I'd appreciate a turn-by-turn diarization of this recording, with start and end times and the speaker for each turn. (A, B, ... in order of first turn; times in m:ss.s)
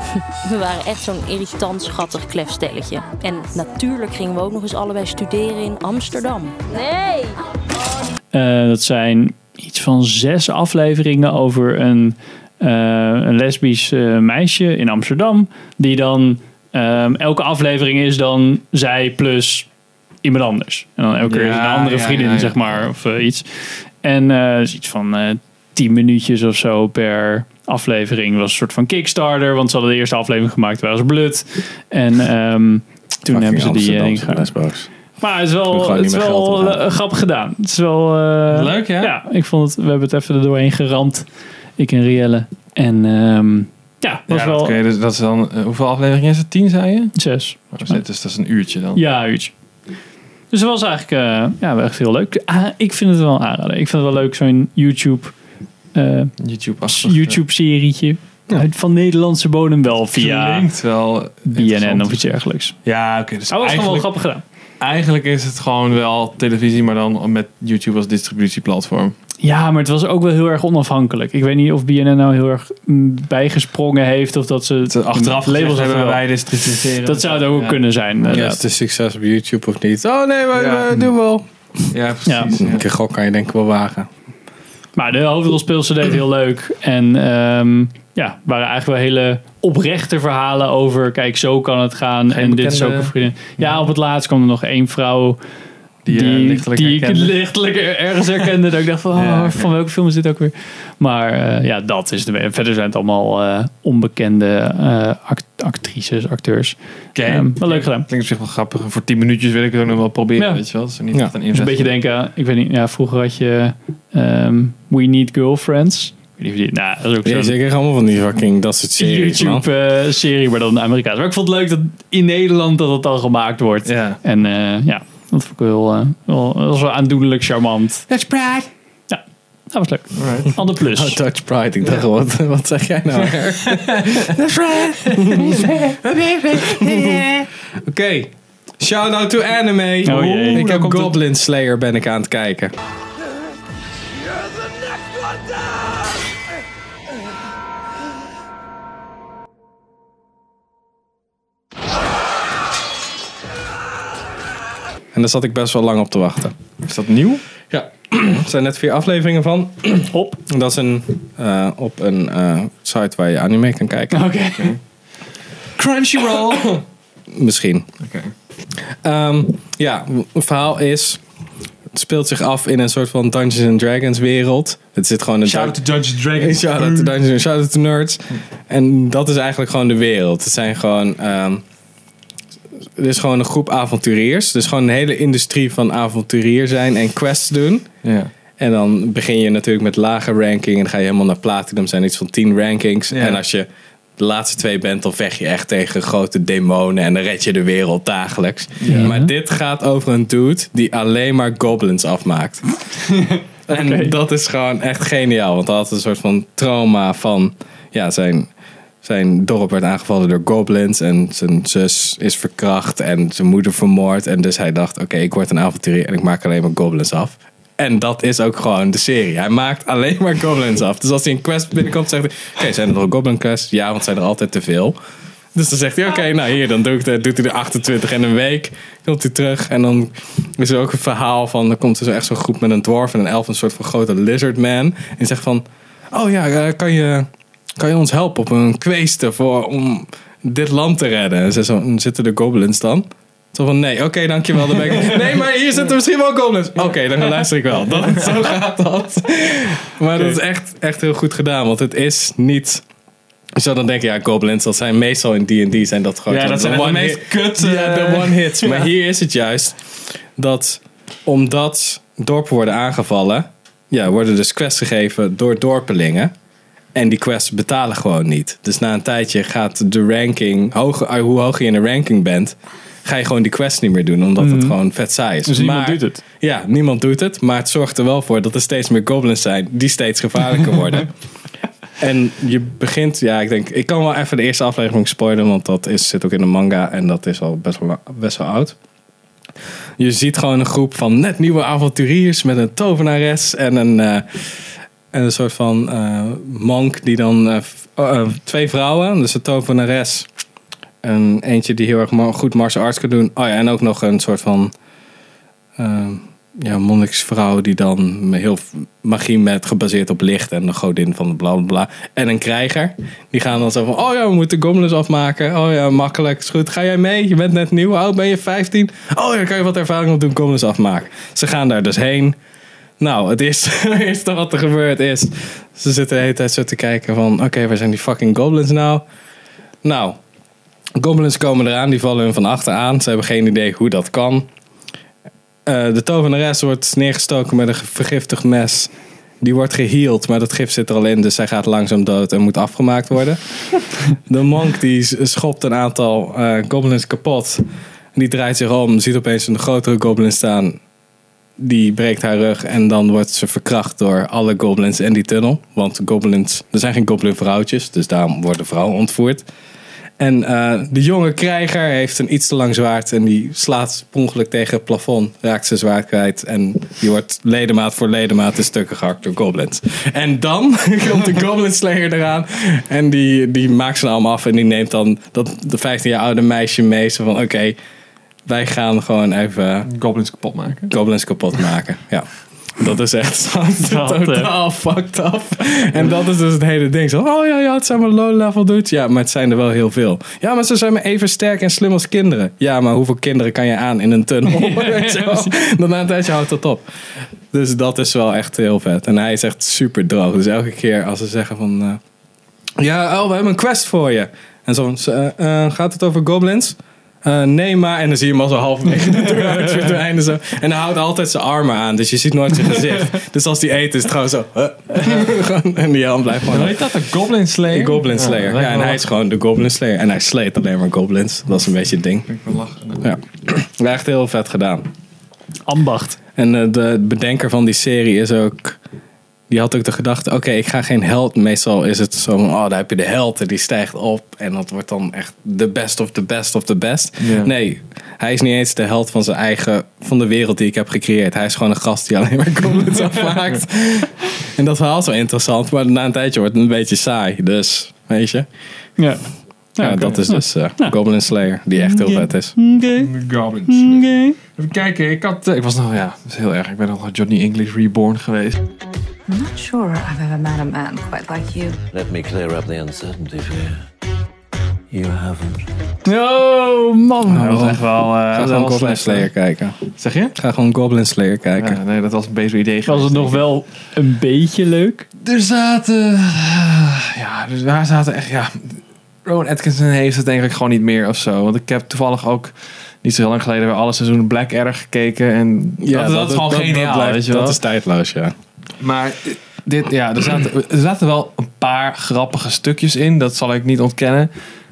0:00.4-0:07.0 A
0:08.3-0:19.7 B
0:20.2-0:34.5 B
0:21.2-0:22.8 C
0:33.3-0:34.9 D
0:35.2-0:41.2 B
0:35.7-0:36.8 D
0:38.5-0:39.2 C
0:41.8-0:44.8 B
0:44.3-0:49.0 C
0:47.2-0:48.0 B
0:48.9-0:49.5 B
0:50.5-0:55.3 B
0:55.9-1:00.7 B
0:56.4-0:57.4 C
1:00.1-1:02.3 C
1:01.5-1:02.8 B
1:02.8-1:04.1 C
1:03.5-1:04.4 B
1:04.8-1:09.1 C
1:09.4-1:16.3 B
1:14.9-1:18.4 C
1:17.0-1:18.6 B
1:18.3-1:21.4 D
1:20.5-1:20.8 C
1:21.9-1:22.8 C
1:22.3-1:22.5 B
1:22.5-1:24.1 D
1:25.0-1:35.4 B
1:32.3-1:33.8 C
1:36.0-1:37.4 C
1:36.1-1:48.1 B
1:39.1-1:39.7 C
1:47.1-1:51.9 C
1:51.5-1:57.6 B
1:57.2-1:59.6 D
1:59.0-2:08.0 B
2:03.8-2:04.2 C
2:08.1-2:08.6 C
2:09.1-2:11.2 B
2:10.2-2:10.5 C
2:10.8-2:17.3 D
2:13.2-2:14.3 C
2:15.0-2:15.5 C
2:15.3-2:15.9 B
2:16.6-2:17.3 C
2:17.8-2:22.7 D
2:20.0-2:20.6 B
2:20.0-2:21.2 C
2:35.1-2:36.5 D
2:36.8-2:37.4 C
2:37.7-2:44.2 D
2:40.1-2:40.4 B
2:44.1-2:44.8 B
2:44.5-2:44.8 C
2:45.8-2:46.8 C
2:47.3-2:47.9 D
2:48.0-2:48.3 C
2:49.0-2:51.2 D
2:51.9-3:01.6 D
2:55.4-2:57.2 C
3:03.0-3:07.9 D
3:08.0-3:08.3 C
3:08.6-3:13.7 D
3:13.1-3:13.4 C
3:14.2-3:22.6 D
3:18.8-3:19.1 C
3:18.9-3:19.3 B
3:23.1-3:24.1 B
3:23.7-3:28.5 D
3:29.0-3:45.0 D
3:45.5-4:12.8 D
4:13.6-4:19.8 D
4:16.3-4:18.9 C
4:20.4-4:26.3 D
4:26.9-4:41.1 D
4:34.4-4:34.8 B
4:35.4-4:36.2 B
4:42.0-4:48.7 D
4:50.0-5:00.2 D
5:01.0-5:04.7 D
5:05.8-5:22.4 D
5:23.0-5:29.0 D
5:29.8-5:30.2 D
5:31.0-5:34.5 D
5:35.6-5:43.4 D
5:44.2-5:47.6 D
5:48.1-5:50.8 D
5:51.6-5:59.4 D
6:00.2-6:17.8 D
6:18.4-6:19.9 D
6:19.8-6:20.9 C
6:20.9-6:36.8 D
6:23.8-6:24.5 B
6:34.5-6:35.5 B
6:37.5-6:42.0 D
6:42.8-6:56.8 D
6:56.5-6:59.1 C
6:57.7-7:02.3 D
7:02.3-7:03.1 C
7:03.0-7:04.9 D
7:05.6-7:06.2 B
7:06.4-7:08.8 D
7:09.5-7:28.5 D
7:17.2-7:17.5 C
7:29.0-7:30.9 B
7:29.8-7:32.5 D
7:31.7-7:33.1 B
7:33.0-7:38.6 C
7:33.7-7:34.4 B
7:39.3-7:41.8 E
7:41.9-7:43.8 F
7:44.9-7:45.7 F
7:46.0-7:47.6 B
7:47.3-7:49.8 D
7:47.3-7:49.3 C
7:50.0-7:50.4 C
7:50.3-7:51.8 D
7:51.6-7:53.5 C
7:52.8-7:55.1 B
7:55.2-8:07.6 C
8:05.8-8:08.3 D
8:08.8-8:14.3 C